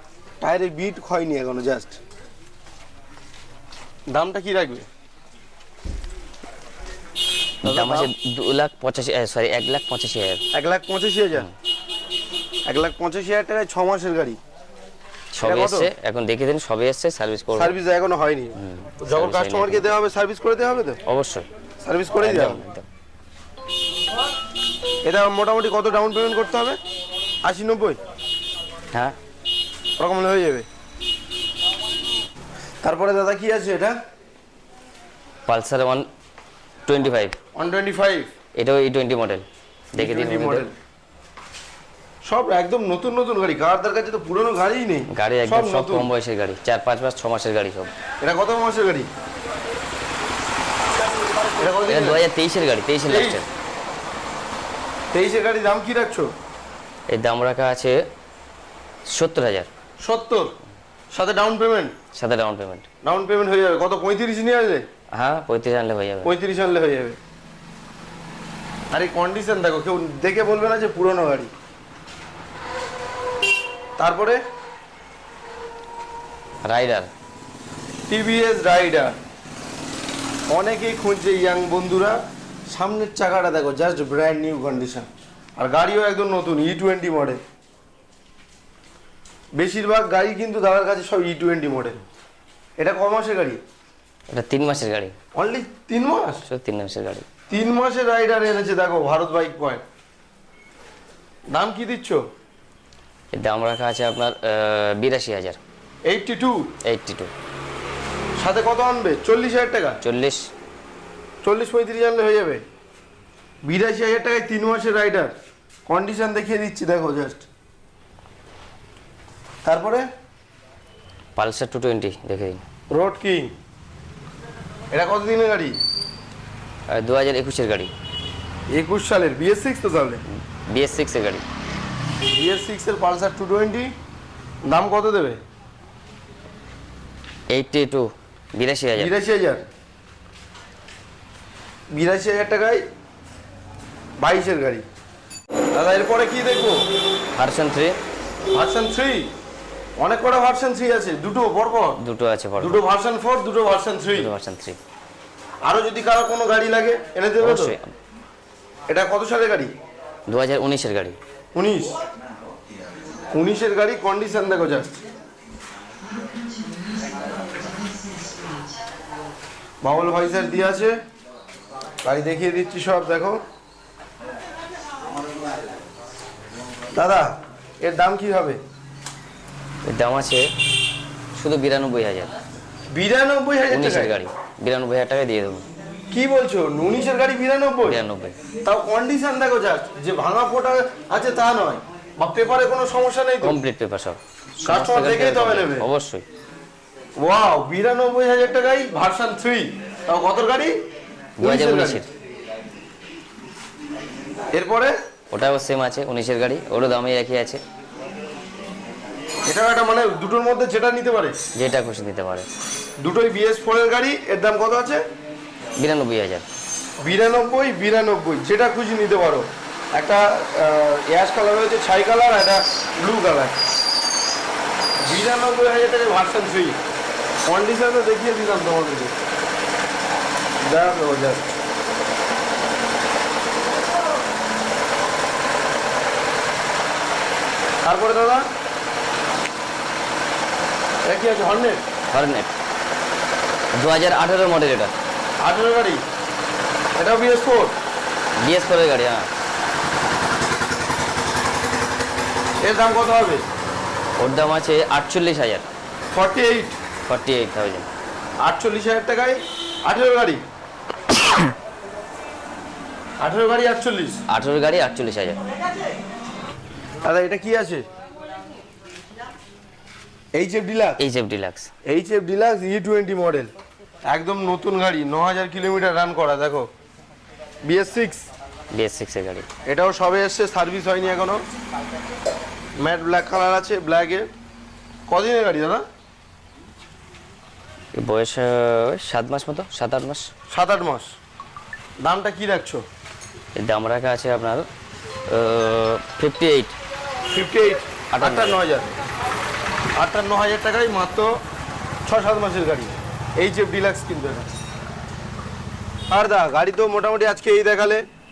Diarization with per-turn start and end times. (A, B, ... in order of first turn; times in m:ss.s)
0:00.4-0:02.0 A
0:04.1-0:04.9 A
0:07.6-0:08.1 A
0:07.6-0:10.4 B
0:10.5-0:11.5 A
0:12.7-0:14.4 A
0:15.3-0:17.8 B
0:15.4-0:15.9 A
0:17.6-0:21.0 A
0:18.6-0:19.9 B
0:21.1-0:21.5 B
0:21.8-0:22.6 A
0:22.2-0:22.9 B
0:25.0-0:26.8 A
0:27.4-0:28.0 A
0:30.0-0:30.7 A
0:32.8-0:34.0 A
0:35.5-0:36.0 B
0:36.9-0:37.4 B
0:37.6-0:38.3 A
0:38.6-0:40.7 B
0:40.0-0:40.7 A
0:42.2-0:46.1 A
0:45.1-0:47.9 B
0:48.2-0:49.1 A
0:51.6-0:52.2 A
0:51.9-0:53.5 B
0:53.1-0:53.4 A
0:55.1-0:56.3 A
0:57.1-0:58.0 B
0:59.1-0:59.7 B
1:00.0-1:00.5 A
1:01.1-1:02.0 A
1:02.1-1:02.9 B
1:03.0-1:04.9 A
1:05.1-1:06.3 B
1:06.2-1:07.2 A
1:08.9-1:11.5 A
1:14.0-1:14.4 A
1:16.6-1:17.1 B
1:18.1-1:19.2 A
1:20.5-1:22.2 A
1:22.7-1:27.4 A
1:29.6-1:32.0 A
1:32.8-1:33.6 A
1:34.3-1:35.2 B
1:35.4-1:36.5 A
1:36.5-1:37.3 B
1:37.5-1:39.8 A
1:41.5-1:42.2 A
1:43.3-1:45.6 B
1:46.1-1:46.7 A
1:46.9-1:47.3 B
1:48.4-1:50.0 A
1:50.0-1:50.5 B
1:51.4-1:52.6 A
1:53.6-1:55.3 A
1:55.9-1:57.5 A
1:59.6-2:00.1 A
2:01.4-2:02.6 B
2:02.9-2:03.5 A
2:04.9-2:05.8 A
2:06.9-2:07.9 B
2:08.7-2:10.2 A
2:10.3-2:11.4 B
2:12.2-2:13.9 A
2:14.6-2:15.4 A
2:17.5-2:19.1 B
2:19.0-2:19.6 A
2:21.9-2:22.8 A
2:24.2-2:24.8 A
2:25.7-2:26.9 A
2:27.4-2:28.0 B
2:28.5-2:29.3 A
2:30.0-2:32.0 A
2:32.0-2:32.8 B
2:32.6-2:34.3 A
2:34.1-2:34.8 B
2:35.6-2:37.8 A
2:37.4-2:37.9 B
2:38.9-2:39.7 A
2:40.3-2:41.2 B
2:41.5-2:42.0 A
2:43.3-2:45.0 A
2:49.8-2:51.0 A
2:52.0-2:53.4 A
2:57.0-2:58.6 A
2:59.9-3:00.5 B
3:01.4-3:02.4 B
3:02.9-3:04.2 A
3:03.7-3:05.7 B
3:06.1-3:08.0 A
3:07.8-3:08.4 B
3:08.6-3:13.6 A
3:13.4-3:16.2 B
3:14.6-3:15.9 A
3:17.2-3:20.8 A
3:21.4-3:22.1 B
3:21.4-3:22.0 A
3:24.5-3:25.0 A
3:25.3-3:27.6 B
3:29.5-3:31.4 A
3:31.6-3:32.5 B
3:33.0-3:35.0 A
3:35.8-3:36.4 B
3:37.0-3:43.5 A
3:45.0-3:46.8 A
3:47.4-3:49.1 A
3:50.6-3:51.5 A
3:57.8-3:58.4 A
4:01.0-4:01.8 A
4:02.1-4:02.5 B
4:03.8-4:05.0 B
4:05.4-4:06.0 A
4:07.0-4:07.8 A
4:08.4-4:09.3 B
4:12.6-4:13.4 A
4:14.2-4:15.7 B
4:16.1-4:16.8 A
4:17.1-4:17.9 B
4:18.4-4:20.4 A
4:21.1-4:21.4 B
4:23.2-4:24.2 A
4:24.3-4:25.4 B
4:27.0-4:27.8 A
4:30.4-4:31.0 A
4:31.0-4:31.7 B
4:31.9-4:33.5 A
4:34.1-4:36.7 A
4:37.6-4:38.3 A
4:38.7-4:39.5 B
4:39.7-4:41.4 A
4:42.8-4:44.3 A
4:45.1-4:45.8 A
4:48.0-4:50.3 B
4:50.5-4:51.1 A
4:52.0-4:52.8 A
4:53.6-4:54.7 B
4:55.3-4:56.8 B
4:57.3-4:58.9 A
4:58.1-4:58.6 B
5:00.0-5:01.4 A
5:02.0-5:04.5 A
5:06.1-5:08.0 A